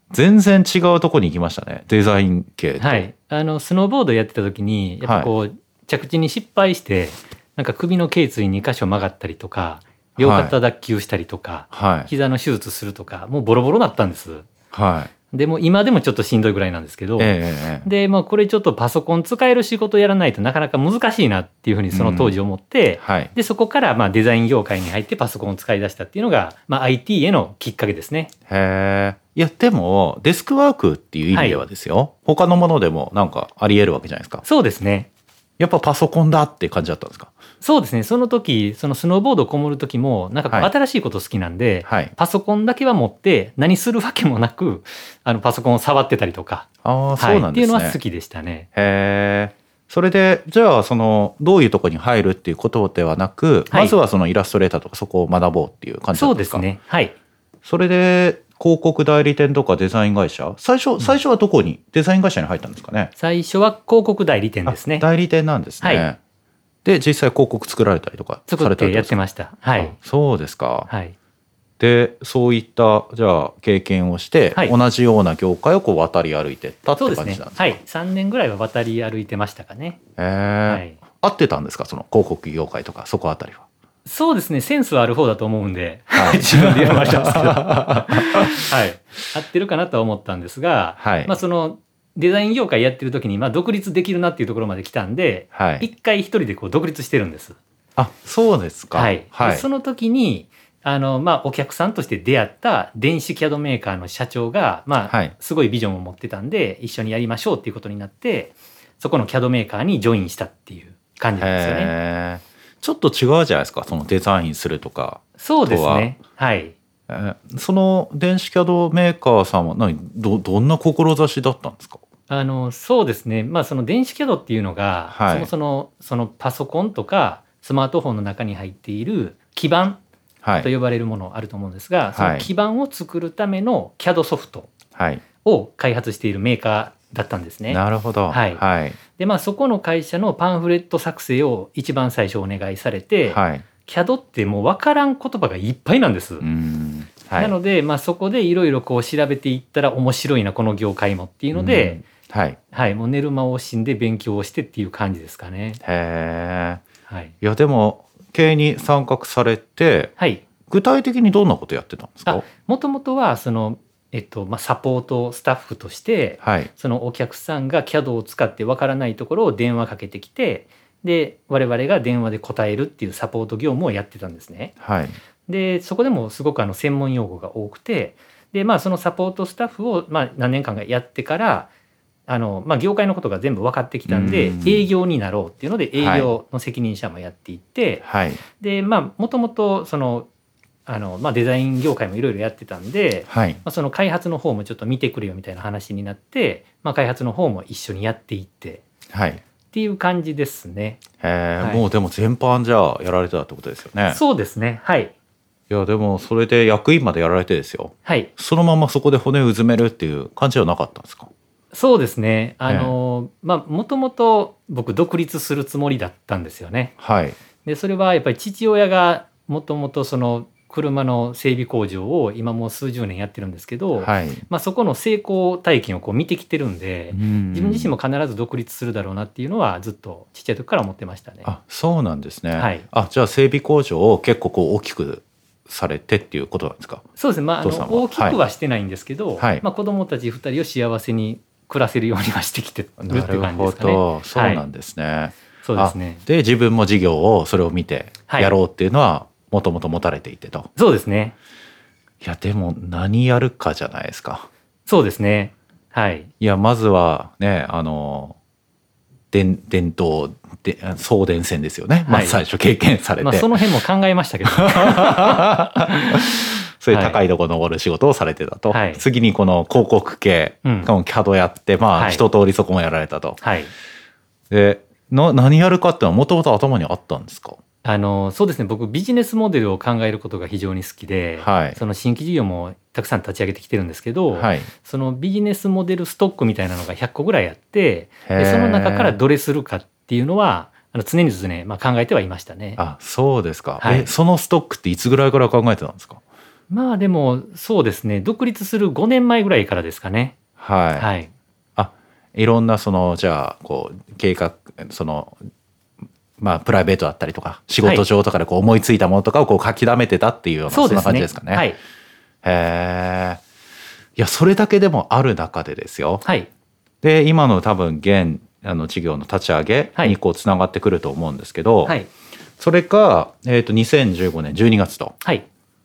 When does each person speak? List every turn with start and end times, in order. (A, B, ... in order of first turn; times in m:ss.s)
0:00.1-0:03.1 A
0:02.8-0:14.5 B
0:05.0-0:05.3 A
0:10.2-0:10.5 A
0:11.7-0:12.1 A
0:14.7-0:15.1 A
0:15.3-0:28.3 B
0:17.2-0:17.9 A
0:21.9-0:22.4 A
0:23.0-0:23.3 A
0:28.5-0:34.4 A
0:31.3-0:31.6 B
0:34.4-0:35.1 B
0:35.6-0:37.3 A
0:37.6-0:46.7 B
0:41.9-0:42.1 A
0:46.8-0:48.0 A
0:47.2-0:48.7 B
0:48.8-0:56.7 A
0:53.7-0:54.0 B
0:56.1-0:57.2 B
0:57.6-1:03.1 A
1:03.2-1:05.1 B
1:04.7-1:06.2 A
1:05.8-1:06.1 B
1:06.8-1:09.2 A
1:08.5-1:10.0 B
1:09.8-1:10.9 A
1:10.9-1:11.2 B
1:11.8-1:17.8 A
1:17.0-1:20.0 B
1:20.2-1:23.6 A
1:20.7-1:21.0 B
1:24.0-1:37.6 B
1:26.2-1:28.6 A
1:31.0-1:31.4 A
1:35.6-1:35.9 A
1:38.0-1:39.7 A
1:38.9-1:51.9 B
1:45.1-1:45.3 A
1:51.4-1:56.1 A
1:55.4-1:56.8 B
1:57.1-2:02.0 A
2:02.3-2:10.0 B
2:05.1-2:05.5 A
2:10.4-2:10.7 A
2:10.6-2:14.7 B
2:12.1-2:12.5 A
2:15.0-2:15.2 A
2:15.4-2:26.5 B
2:17.7-2:19.0 A
2:23.3-2:23.7 A
2:26.4-2:27.5 A
2:27.4-2:32.0 B
2:31.5-2:32.6 A
2:32.7-2:35.8 B
2:35.8-2:36.8 A
2:37.1-2:37.4 B
2:37.4-2:40.1 A
2:40.2-2:40.4 B
2:40.7-2:42.4 A
2:42.3-2:54.8 B
2:46.4-2:46.7 A
2:54.8-2:55.2 A
2:55.5-3:01.7 B
3:02.3-3:08.1 B
3:04.1-3:04.9 A
3:06.0-3:06.3 A
3:08.0-3:08.4 A
3:08.6-3:10.3 B
3:10.9-3:18.8 B
3:13.3-3:13.6 A
3:19.1-3:19.4 A
3:19.7-3:21.0 B
3:21.2-3:24.2 A
3:24.1-3:25.1 B
3:25.7-3:31.3 A
3:28.0-3:28.3 B
3:31.7-3:36.9 B
3:32.7-3:32.9 A
3:37.0-3:37.4 A
3:37.6-3:51.5 B
3:44.0-3:44.4 A
3:47.1-3:47.9 A
3:51.4-3:58.4 A
3:52.6-3:52.9 B
3:57.2-4:04.6 B
3:59.4-3:59.6 A
4:03.0-4:10.7 A
4:05.6-4:06.2 B
4:08.3-4:08.6 B
4:10.8-4:11.4 B
4:12.2-4:14.5 A
4:14.9-4:16.3 B
4:16.4-4:18.4 A
4:19.3-4:23.5 A
4:22.1-4:22.4 B
4:23.2-4:26.3 B
4:24.4-4:33.4 A
4:26.9-4:27.2 B
4:28.7-4:29.0 B
4:30.6-4:30.9 B
4:32.0-4:32.2 B
4:33.4-4:33.7 B
4:34.5-4:37.6 A
4:37.8-4:52.8 B
4:41.4-4:41.8 A
4:44.3-4:44.7 A
4:48.3-4:49.2 A
4:52.8-4:56.2 A
4:53.8-4:54.1 B
4:56.7-5:00.4 B
5:00.6-5:01.1 A
5:01.0-5:01.3 B
5:01.8-5:05.4 A
5:06.4-5:11.7 A
5:10.7-5:11.8 B
5:12.4-5:13.4 A
5:14.2-5:16.2 A
5:16.2-5:16.5 B
5:17.0-5:22.0 A
5:22.6-5:25.2 A